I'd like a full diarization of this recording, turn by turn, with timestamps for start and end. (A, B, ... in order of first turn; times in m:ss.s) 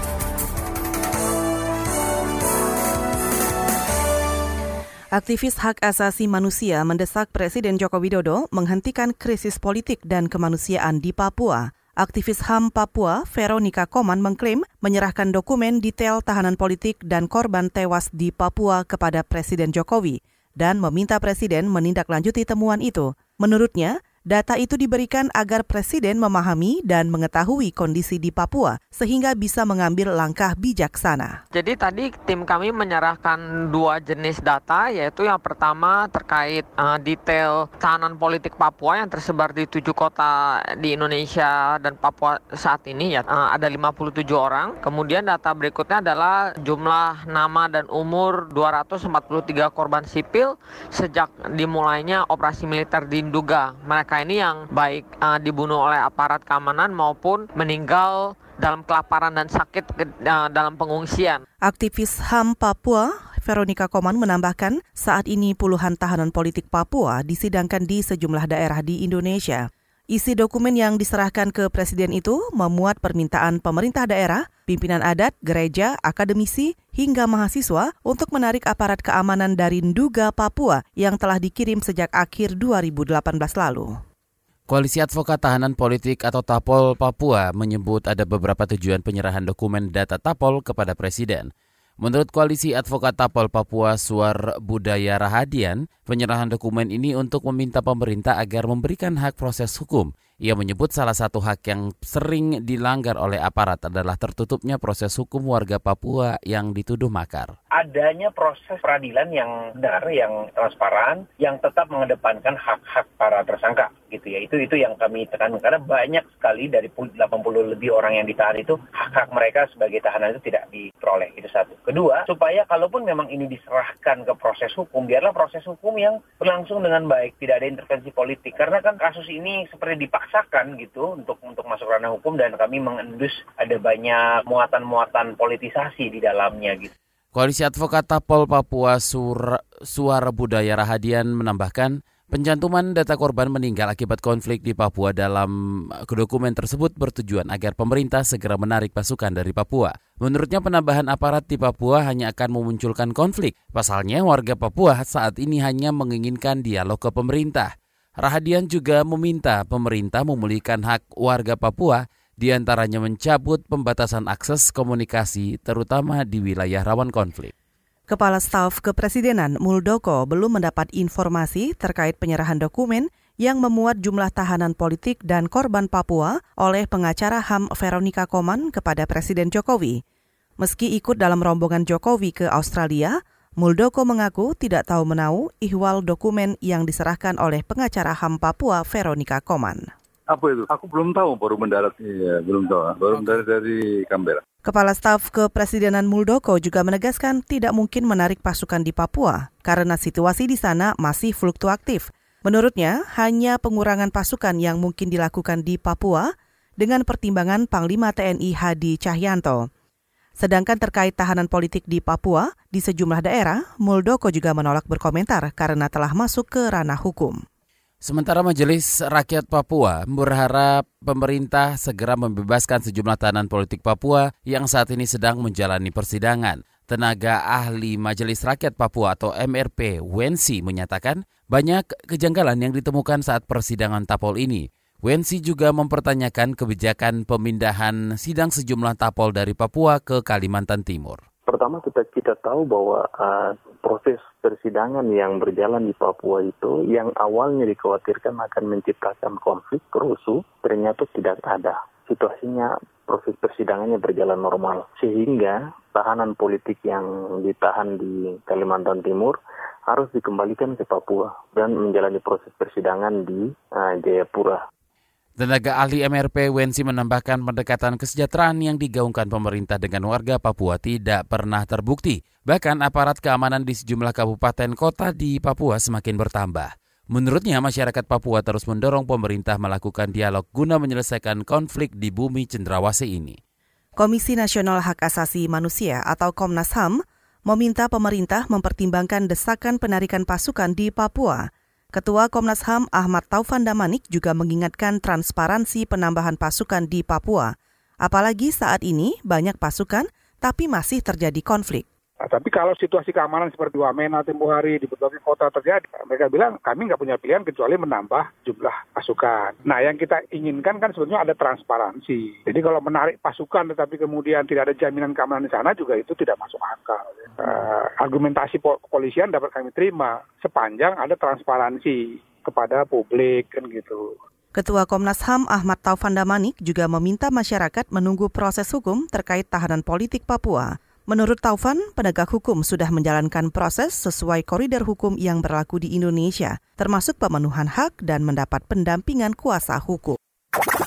0:05.2-0:31.4 A
0:31.5-1:01.4 B
1:01.7-1:23.9 A
1:24.7-1:31.5 C
1:32.0-1:47.5 C
1:47.8-2:16.9 D
2:17.3-2:25.5 C
2:26.1-2:47.5 C
2:48.1-3:00.0 A
3:00.6-3:09.9 A
3:10.3-3:14.4 E
3:14.7-3:26.3 A
3:26.8-3:29.6 A
3:30.4-3:37.4 A
3:38.0-4:01.2 C
4:01.5-4:24.6 F
4:25.4-4:43.4 C
4:44.0-4:47.0 A
4:47.5-4:57.5 A
4:58.0-5:01.9 A
5:02.2-5:24.1 G
5:24.6-5:40.2 A